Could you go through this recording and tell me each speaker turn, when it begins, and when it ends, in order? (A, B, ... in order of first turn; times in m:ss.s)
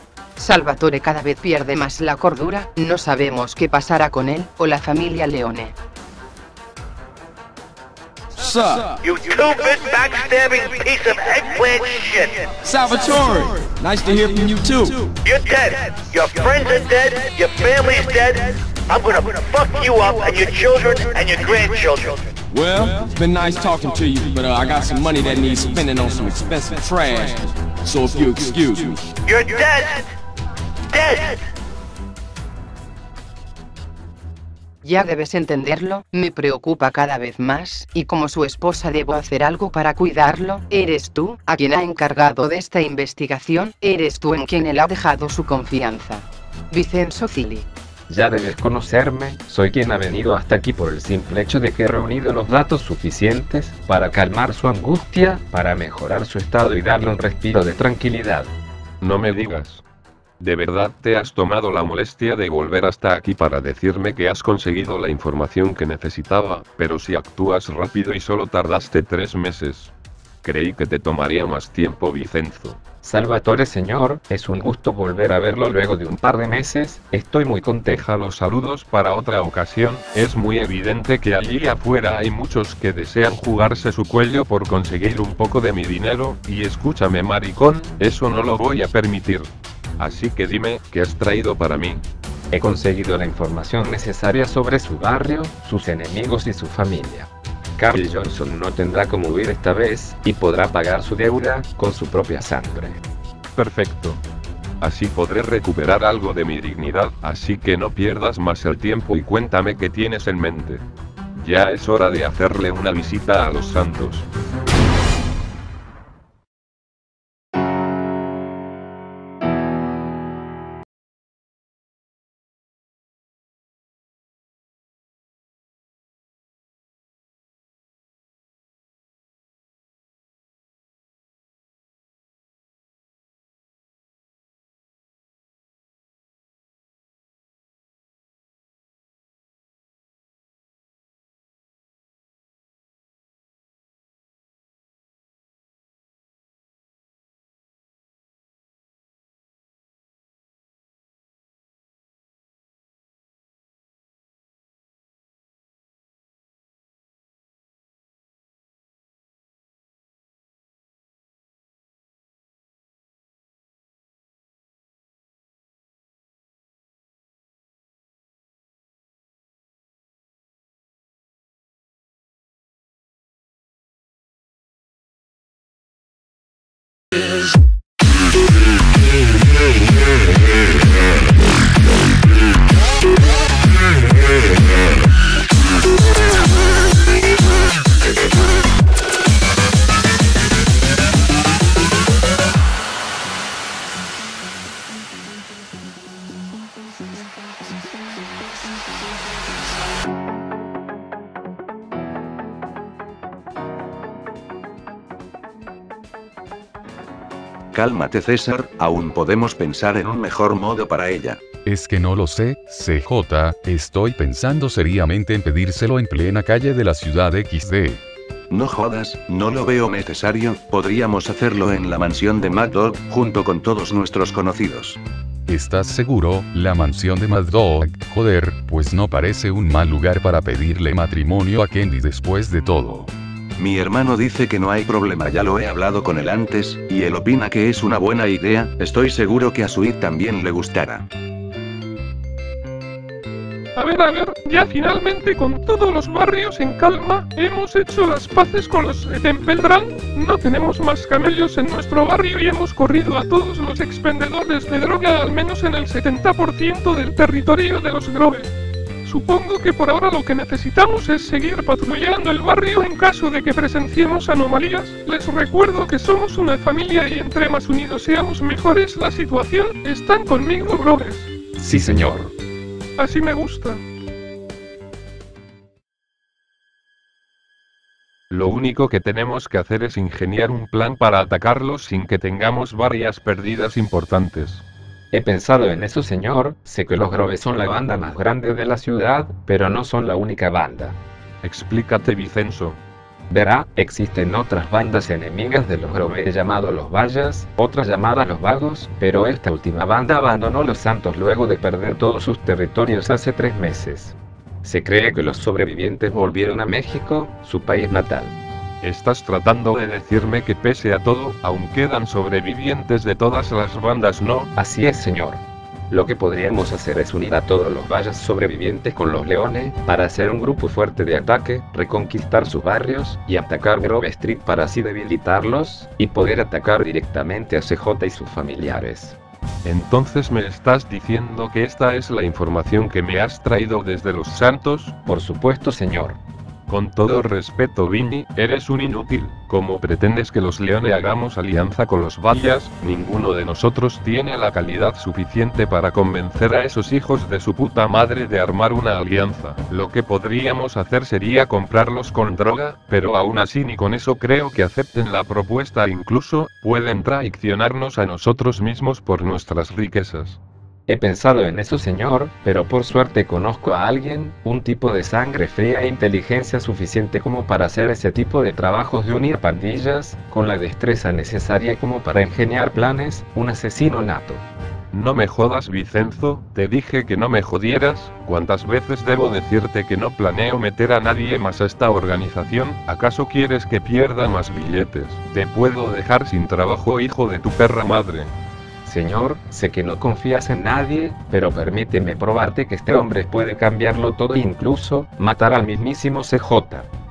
0:00.4-0:05.8 A
0:08.4-0:09.0 B
0:09.0-0:12.5 C
0:12.6-0:15.1 B
0:15.2-0:22.3 C
0:22.5-0:29.1 B
0:29.3-0:30.1 C
0:30.9-0:31.4 C
0:34.8-0:47.7 A
0:48.1-0:58.6 D
0:59.0-0:59.8 E
1:00.4-1:12.8 E
1:13.0-1:18.0 D
1:17.9-1:32.0 E
1:32.5-1:43.0 D
1:43.6-1:44.2 E
1:44.8-1:54.3 E
3:27.7-3:31.4 F
3:31.6-3:38.0 G
3:38.5-3:45.0 F
3:45.5-3:53.1 G
3:53.6-4:01.1 F
4:03.8-4:18.5 H
4:19.0-4:31.3 H
4:31.6-4:32.3 D
4:33.0-4:33.8 H
4:38.3-4:44.6 E
4:45.1-4:51.0 D
4:51.4-4:52.8 E
4:53.3-5:08.3 D
5:08.8-5:14.5 E
5:14.6-5:29.2 D
5:29.6-5:34.9 E
5:35.1-5:36.2 D
5:36.7-6:00.4 E
6:00.9-6:14.4 D
6:14.9-6:28.3 E
6:28.8-6:36.9 D